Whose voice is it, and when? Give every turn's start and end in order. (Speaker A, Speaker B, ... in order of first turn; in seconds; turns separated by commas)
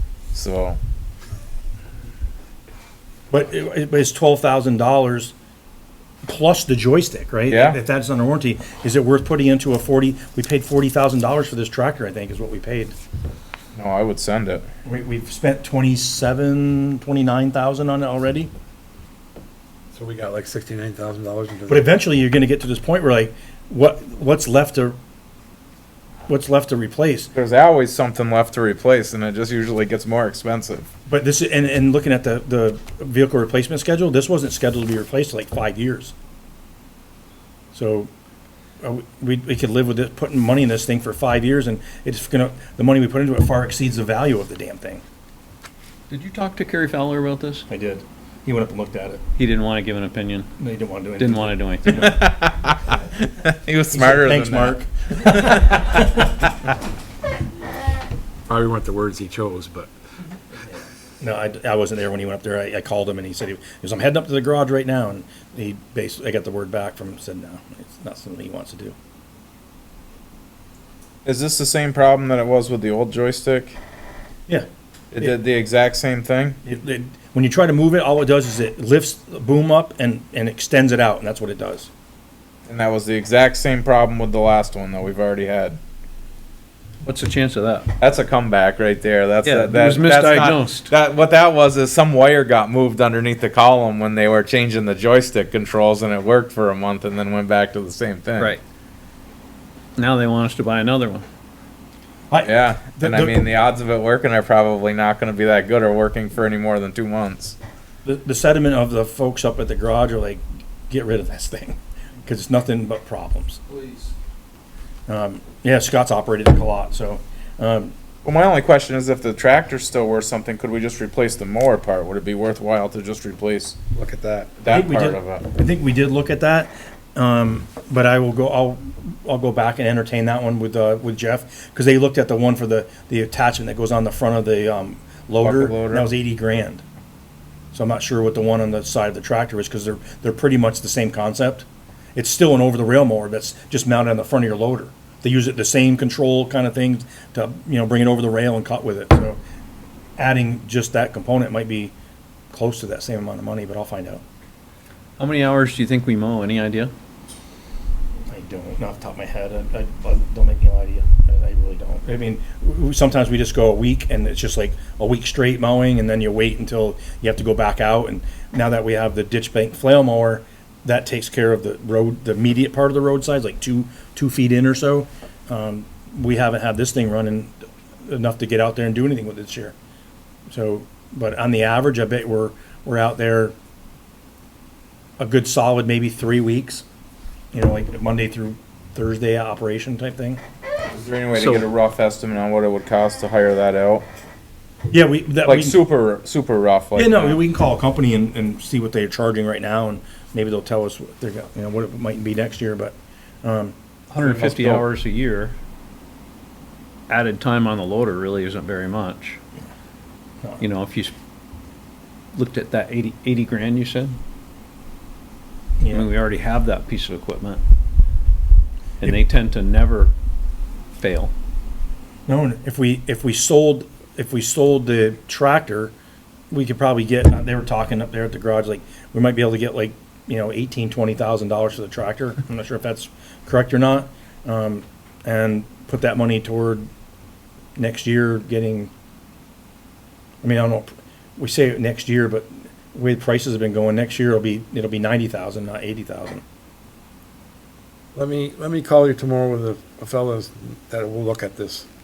Speaker A: 0.3-0.8, Speaker B: 3.3-5.3, Speaker B: 6.2-12.9, Speaker A: 7.5-7.8, Speaker A: 13.8-14.7, Speaker B: 14.8-18.5, Speaker C: 19.9-21.9, Speaker B: 21.7-25.0, Speaker B: 26.3-27.3, Speaker A: 27.3-30.9, Speaker B: 31.1-36.1, Speaker B: 37.7-38.1, Speaker B: 38.8-45.0, Speaker D: 46.1-47.6, Speaker B: 47.7-49.2, Speaker D: 49.4-50.5, Speaker B: 50.6-52.2, Speaker D: 51.2-52.1, Speaker A: 51.9-56.0, Speaker B: 53.9-56.2, Speaker C: 58.5-59.9, Speaker B: 61.2-69.0, Speaker A: 71.2-73.8, Speaker A: 75.1-76.6, Speaker B: 76.7-81.9, Speaker A: 82.7-85.8, Speaker D: 87.0-87.9, Speaker A: 88.0-98.5, Speaker D: 89.4-90.9, Speaker D: 100.0-101.2, Speaker B: 102.3-103.5, Speaker A: 102.4-107.6, Speaker B: 108.0-113.6, Speaker B: 115.1-117.9, Speaker A: 118.2-123.8, Speaker C: 123.9-124.5, Speaker A: 124.6-125.5, Speaker B: 124.7-136.8, Speaker A: 135.4-136.1, Speaker B: 137.7-149.4, Speaker B: 150.2-151.9, Speaker B: 152.5-154.2, Speaker D: 155.2-156.9, Speaker B: 158.3-179.8, Speaker B: 180.5-183.5, Speaker B: 185.2-186.8, Speaker B: 187.5-190.4, Speaker A: 190.9-194.1, Speaker D: 191.3-191.7, Speaker B: 194.9-195.8, Speaker A: 195.4-197.4, Speaker B: 196.9-203.8, Speaker D: 204.1-205.6, Speaker A: 204.2-204.9, Speaker D: 207.1-209.4, Speaker D: 210.6-211.1, Speaker D: 212.3-214.2, Speaker B: 215.8-216.1, Speaker D: 215.9-217.6, Speaker D: 219.0-220.1, Speaker D: 221.0-221.3, Speaker B: 222.3-225.9, Speaker B: 226.5-236.9, Speaker B: 237.8-238.9, Speaker B: 240.4-246.4, Speaker C: 248.2-251.9